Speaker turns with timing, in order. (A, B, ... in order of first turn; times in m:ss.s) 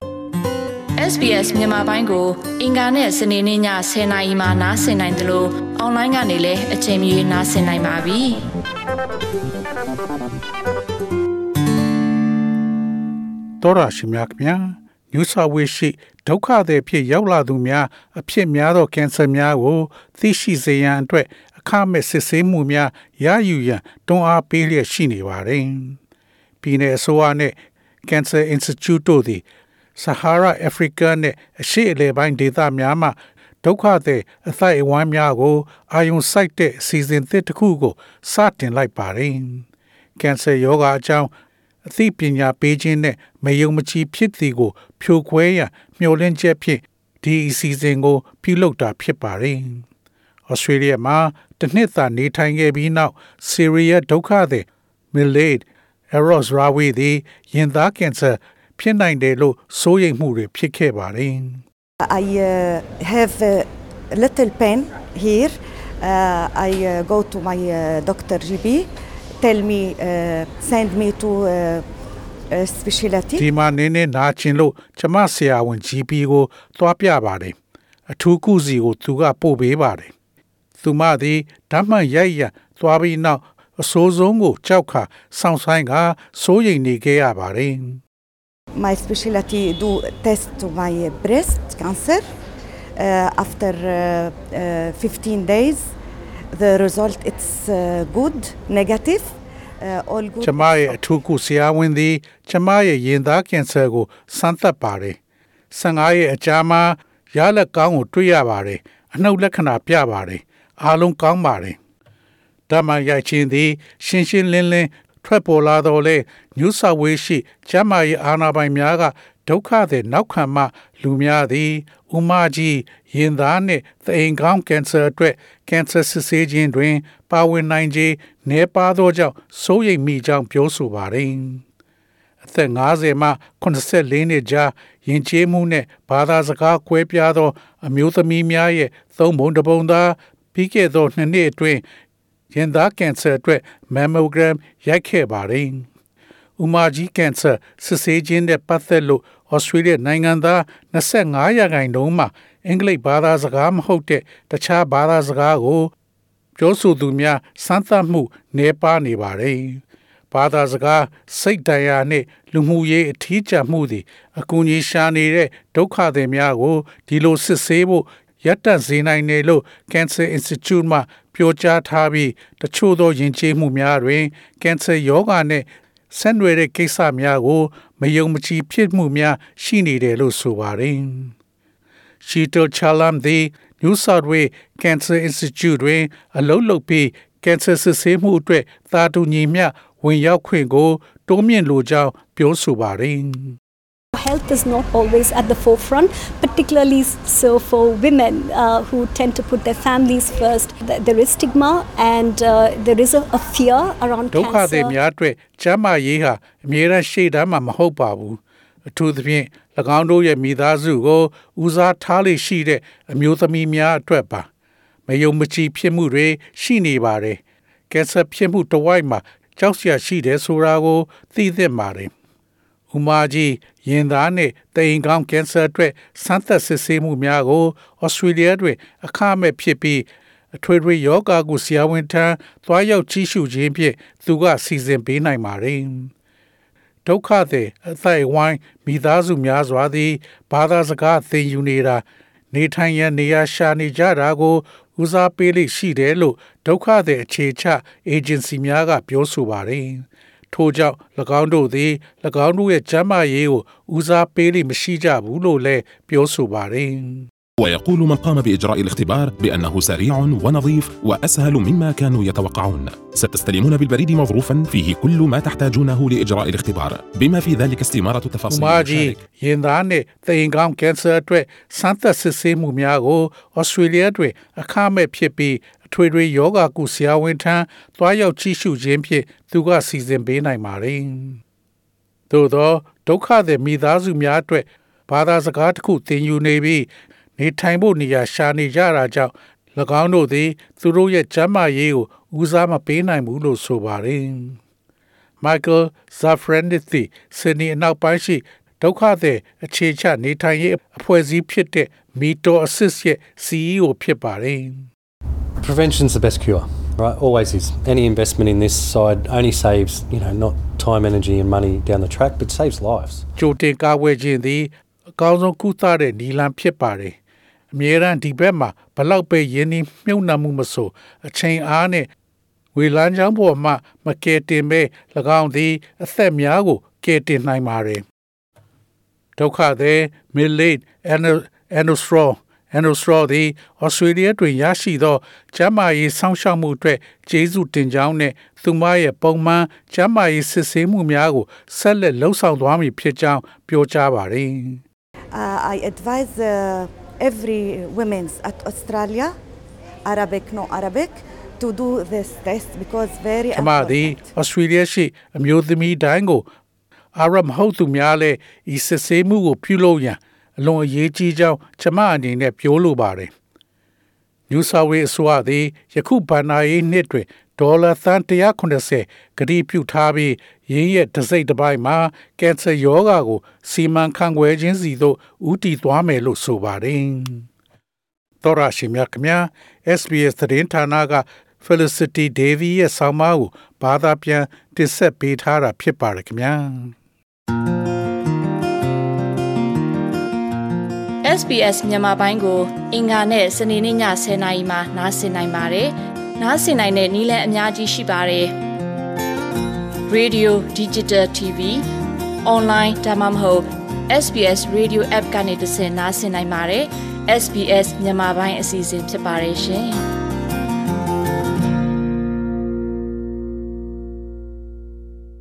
0:01.0-0:08.4 A
0:13.6-0:26.0 B
0:26.6-0:29.4 B
0:30.0-0:39.7 B
0:40.2-0:41.3 B
0:41.9-0:49.8 B
0:50.5-1:01.6 B
1:02.0-1:08.9 C
1:09.4-1:11.8 C
1:12.5-1:13.5 C
1:13.4-1:17.6 B
1:18.1-1:20.1 B
1:20.8-1:28.0 B
1:28.7-1:32.2 C
1:33.0-1:35.9 C
1:36.5-1:40.9 C
1:40.4-1:45.2 B
1:45.7-1:51.8 B
1:52.7-2:11.6 B
2:12.4-2:21.8 B
2:22.5-2:25.9 B
2:26.6-2:35.9 B
2:36.6-3:01.3 B
3:02.2-3:13.6 B
3:14.1-3:25.0 D
3:24.3-3:28.4 B
3:29.0-3:34.5 B
3:35.1-3:42.1 B
3:42.9-3:56.1 B
3:57.0-4:17.3 B
4:17.6-4:29.2 E
4:28.5-4:41.4 B
4:42.3-4:54.6 B
4:55.4-5:04.9 B
5:05.6-5:13.3 F
5:13.4-5:17.2 B
5:17.7-5:22.1 B
5:22.8-5:28.0 B
5:29.4-5:44.8 B
5:45.3-5:49.3 C
5:50.0-5:54.3 C
5:53.6-5:56.5 B
5:57.2-6:03.3 B
6:04.5-6:17.5 B
6:18.4-6:27.0 B
6:31.2-6:38.6 A
6:40.1-6:41.8 A
6:42.4-6:50.0 A